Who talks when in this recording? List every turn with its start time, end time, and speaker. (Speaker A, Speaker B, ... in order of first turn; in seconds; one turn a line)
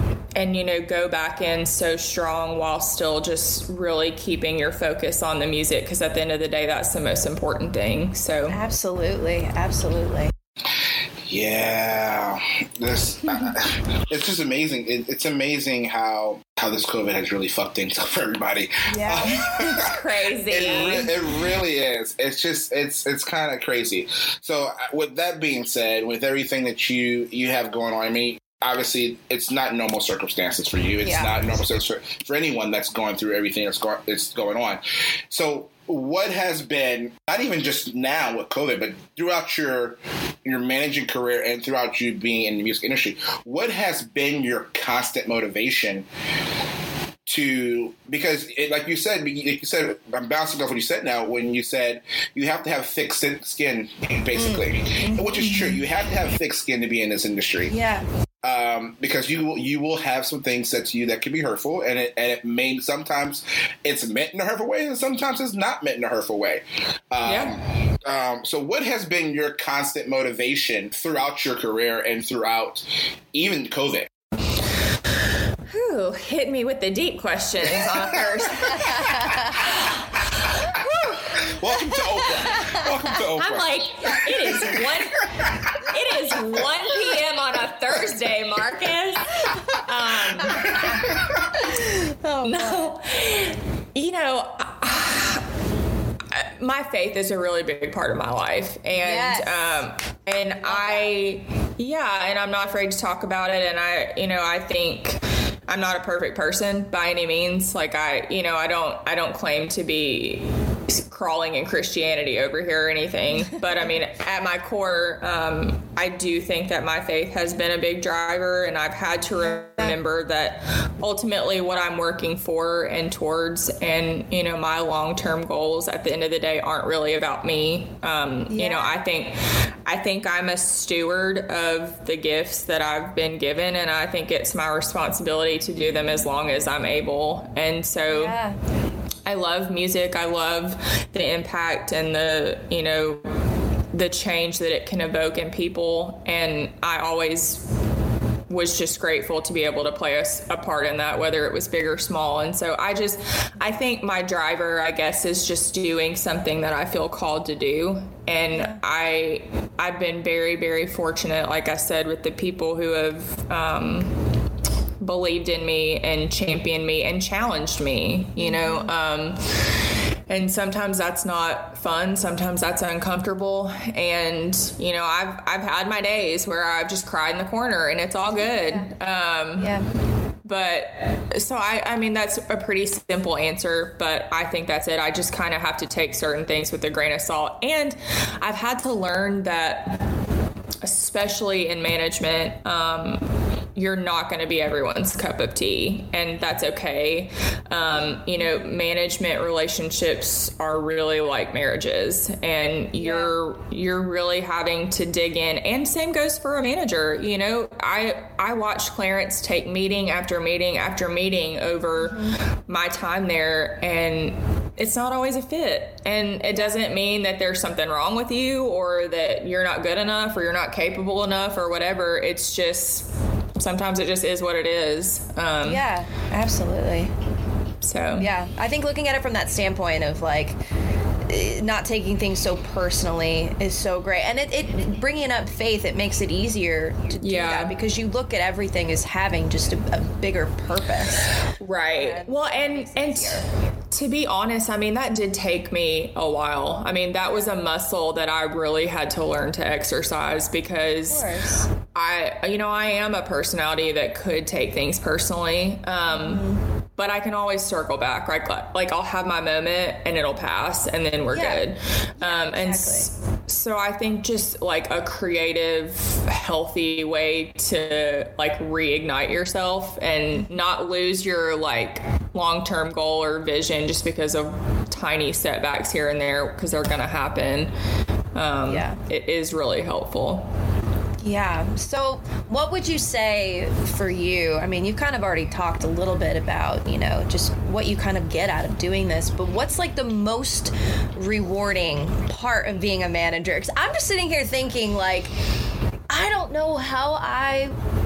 Speaker A: 0.4-8.6
Speaker B: 8.5-10.3
Speaker C: 10.7-46.1
Speaker B: 18.9-19.4
Speaker A: 19.3-21.2
Speaker B: 20.7-21.0
Speaker B: 31.0-31.4
Speaker C: 47.3-57.8
Speaker B: 54.4-55.7
Speaker B: 57.7-58.1
Speaker C: 58.4-74.1
Speaker A: 67.2-67.5
Speaker A: 75.7-80.0
Speaker C: 77.9-78.8
Speaker B: 79.0-79.3
Speaker A: 80.5-81.3
Speaker C: 80.7-85.8
Speaker B: 82.4-82.9
Speaker A: 83.4-91.0
Speaker B: 89.5-89.8
Speaker B: 90.4-93.0
Speaker A: 92.4-95.5
Speaker A: 96.3-138.4
Speaker B: 98.9-99.8
Speaker B: 100.6-101.1
Speaker B: 119.7-120.0
Speaker B: 128.5-128.9
Speaker B: 138.1-138.6
Speaker A: 139.3-143.4
Speaker A: 143.9-147.7
Speaker A: 148.5-164.2
Speaker B: 158.5-158.8
Speaker A: 165.0-169.4
Speaker B: 168.4-168.9
Speaker A: 170.3-179.8
Speaker B: 178.3-178.9
Speaker B: 179.6-179.9
Speaker A: 180.4-190.0
Speaker A: 190.8-225.8
Speaker B: 202.9-203.3
Speaker B: 212.0-212.4
Speaker B: 225.7-227.1
Speaker A: 227.8-228.3
Speaker B: 228.2-230.6
Speaker B: 231.3-241.4
Speaker A: 237.2-237.7
Speaker A: 241.6-251.3
Speaker B: 241.9-243.4
Speaker B: 251.1-251.7
Speaker A: 251.8-256.4
Speaker B: 256.1-256.6
Speaker A: 257.0-277.7
Speaker B: 261.3-261.6
Speaker B: 262.2-263.1
Speaker A: 278.4-280.5
Speaker B: 278.7-279.0
Speaker B: 281.2-295.3
Speaker B: 296.1-297.8